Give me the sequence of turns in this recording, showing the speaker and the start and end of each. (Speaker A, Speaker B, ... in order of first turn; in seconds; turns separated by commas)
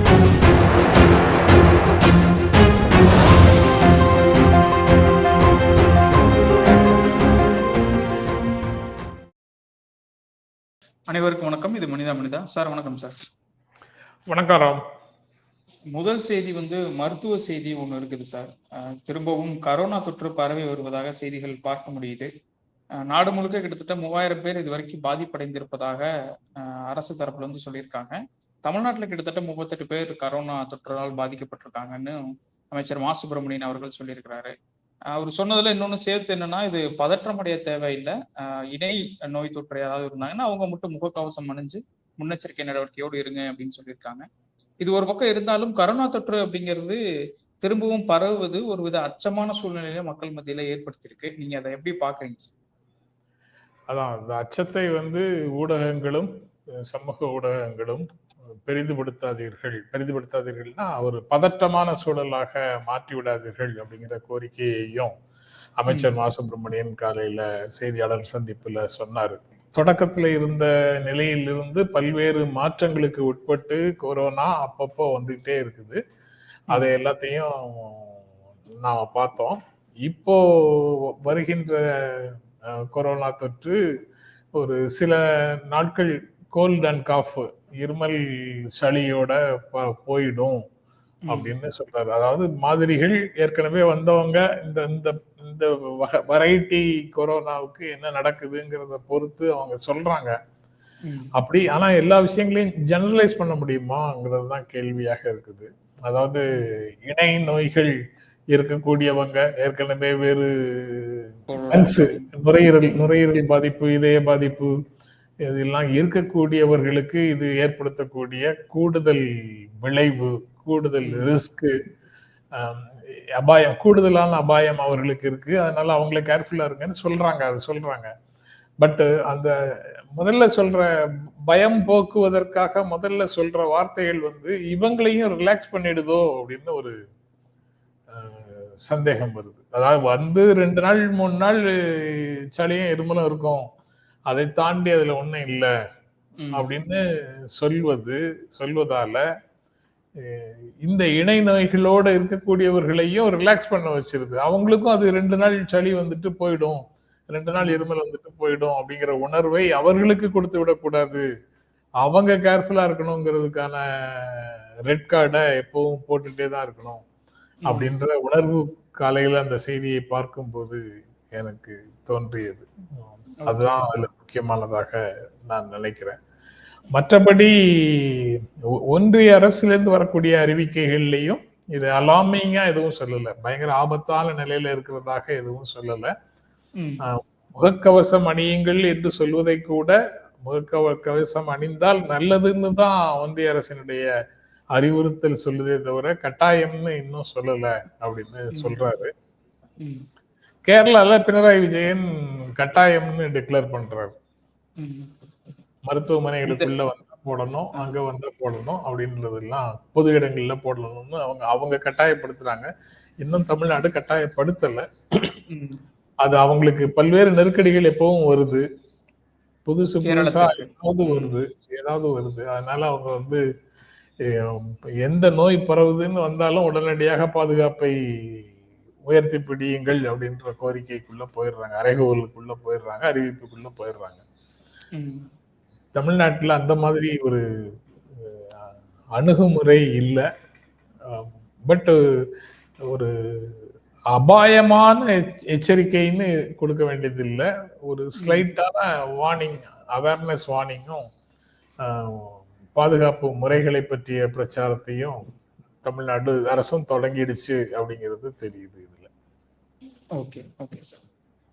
Speaker A: 11.1-13.3, Speaker B: 14.3-14.8, Speaker A: 15.9-22.3, Speaker A: 23.1-26.1, Speaker A: 26.6-32.2, Speaker A: 32.7-34.5, Speaker A: 35.1-44.2, Speaker A: 44.8-47.0, Speaker A: 47.6-52.5, Speaker B: 53.9-56.3, Speaker B: 56.8-58.1, Speaker B: 58.7-65.1, Speaker B: 65.8-76.0, Speaker A: 65.9-66.1, Speaker B: 76.7-78.3, Speaker B: 78.8-83.8, Speaker B: 84.6-90.6, Speaker A: 91.3-91.5, Speaker B: 91.3-100.3, Speaker A: 101.1-101.3, Speaker B: 101.4-108.0, Speaker B: 108.5-114.7, Speaker A: 111.5-112.3, Speaker B: 115.4-121.7, Speaker A: 121.0-121.4, Speaker B: 122.5-128.1, Speaker B: 128.8-136.9, Speaker B: 138.1-143.7, Speaker B: 144.3-145.7, Speaker A: 146.4-146.7, Speaker B: 146.5-147.0, Speaker B: 147.6-149.2, Speaker B: 150.2-156.8, Speaker B: 157.3-161.2, Speaker A: 157.6-157.9, Speaker B: 162.0-167.0, Speaker A: 167.7-167.9, Speaker B: 167.7-170.8, Speaker B: 171.3-172.7, Speaker A: 173.4-173.9, Speaker B: 173.5-176.2, Speaker B: 176.9-186.1, Speaker A: 186.8-187.0, Speaker B: 187.0-194.1, Speaker B: 194.8-199.1, Speaker A: 198.5-198.8, Speaker B: 200.7-204.1, Speaker A: 204.8-205.1, Speaker B: 205.9-212.7, Speaker A: 206.4-206.7, Speaker B: 213.2-215.3, Speaker A: 215.5-215.8, Speaker B: 216.2-218.7, Speaker B: 219.7-223.4, Speaker A: 220.0-221.4, Speaker B: 224.2-228.5, Speaker B: 229.1-234.2, Speaker A: 234.9-235.3, Speaker B: 236.0-237.4, Speaker B: 239.2-240.2, Speaker B: 241.1-242.0, Speaker B: 242.9-251.0, Speaker A: 248.2-248.5, Speaker B: 251.8-255.2, Speaker B: 255.8-259.1, Speaker A: 260.2-261.0